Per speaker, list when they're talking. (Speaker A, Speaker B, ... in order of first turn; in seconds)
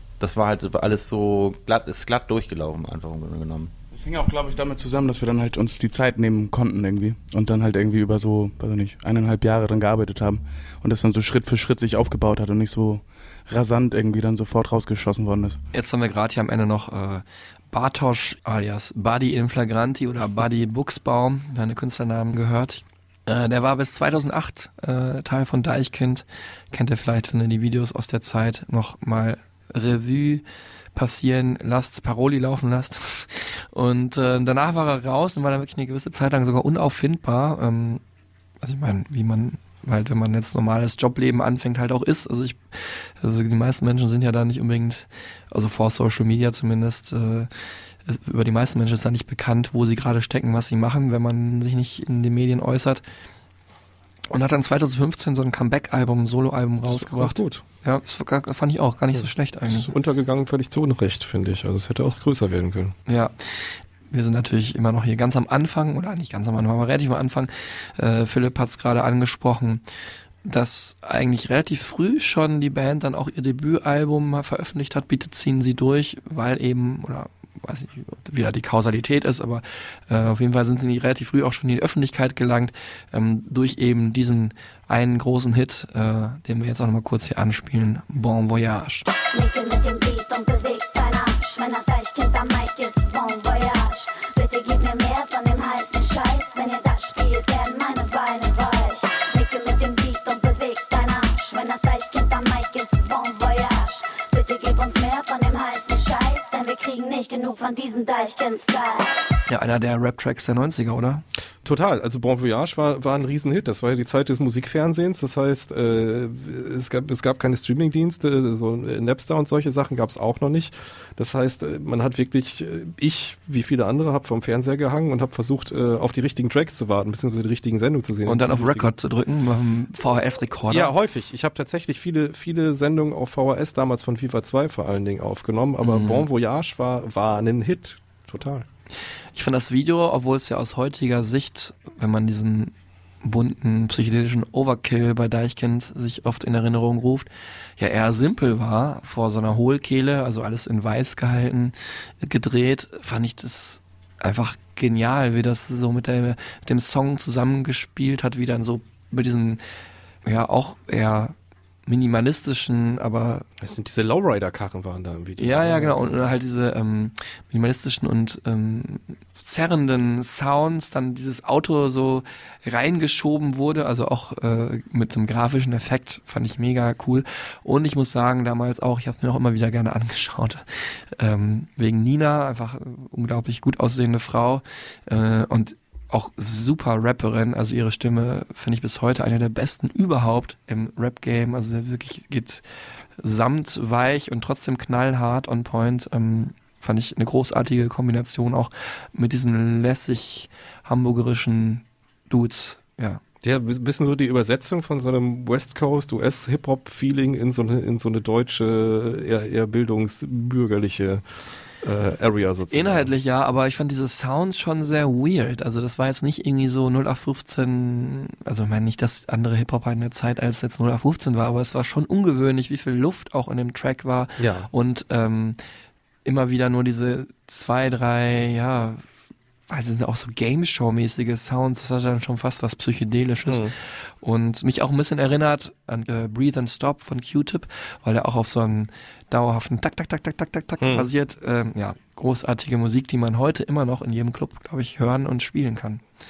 Speaker A: 0.2-3.7
Speaker B: 3.9-15.6
Speaker C: 15.7-38.0, 38.6-42.6, 43.2-47.5, 48.0-53.0, 54.3-59.9, 63.1-69.8, 70.4-89.1, 109.5-111.2, 128.2-130.9, 135.8-136.2, 139.3-159.6, 160.2-161.3, 161.8-163.5, 165.4-192.6, 193.2-203.2, 212.7-225.6, 226.2-229.0, 229.7-246.0
Speaker D: 56.9-57.6, 59.1-62.9, 111.6-128.9, 130.7-138.7, 163.6-166.2, 203.4-211.2, 211.8-213.1, 224.4-224.7, 233.5-233.7, 240.8-241.1
Speaker E: 89.3-109.2